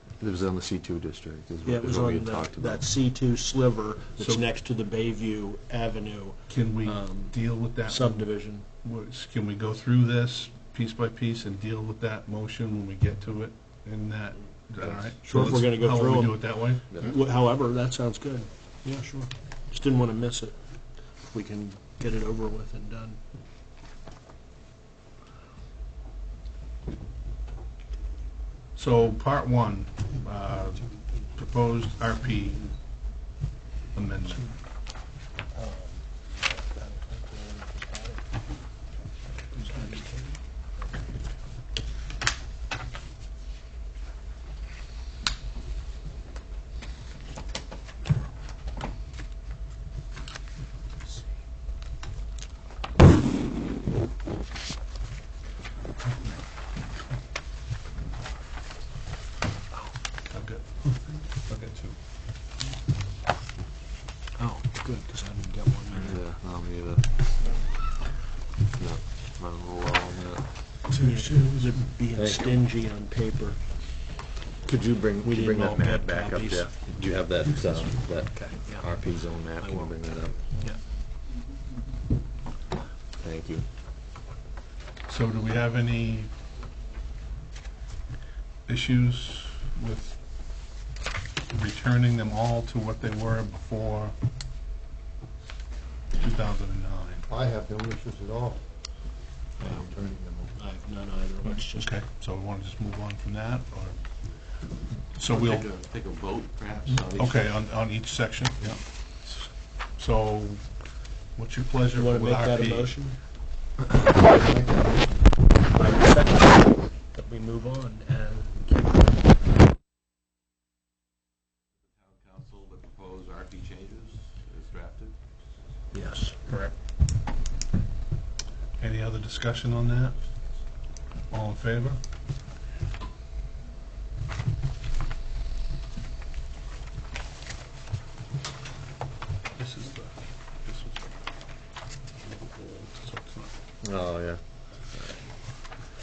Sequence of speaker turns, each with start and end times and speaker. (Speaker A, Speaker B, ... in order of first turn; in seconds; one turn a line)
Speaker A: 0.2-2.9
Speaker B: 1.6-8.6
Speaker C: 4.2-4.5
Speaker C: 6.5-17.1
Speaker A: 14.8-15.1
Speaker B: 15.2-20.6
Speaker A: 16.9-17.2
Speaker B: 21.2-23.2
Speaker C: 28.8-32.7
Speaker C: 33.9-34.5
Speaker B: 35.5-38.3
Speaker B: 39.4-41.1
Speaker C: 60.2-62.0
Speaker B: 64.4-66.2
Speaker A: 65.9-67.3
Speaker A: 68.7-70.9
Speaker C: 70.9-71.7
Speaker B: 71.0-73.6
Speaker A: 72.1-72.6
Speaker A: 74.6-80.5
Speaker B: 75.2-76.7
Speaker B: 78.3-78.9
Speaker B: 79.6-79.9
Speaker A: 83.2-83.7
Speaker C: 85.1-86.3
Speaker C: 88.7-90.2
Speaker C: 91.5-94.1
Speaker C: 96.1-97.3
Speaker D: 97.3-98.6
Speaker D: 99.6-100.5
Speaker B: 100.5-102.0
Speaker C: 101.4-104.0
Speaker C: 105.1-105.7
Speaker E: 105.3-107.5
Speaker C: 107.1-113.0
Speaker B: 111.9-113.2
Speaker D: 114.0-115.3
Speaker B: 115.7-119.1
Speaker E: 121.8-125.2
Speaker B: 125.9-126.4
Speaker C: 126.5-126.7
Speaker C: 128.8-130.2
Speaker C: 131.3-132.0
Speaker C: 139.6-141.2
Speaker C: 142.2-143.5
Speaker A: 143.8-144.4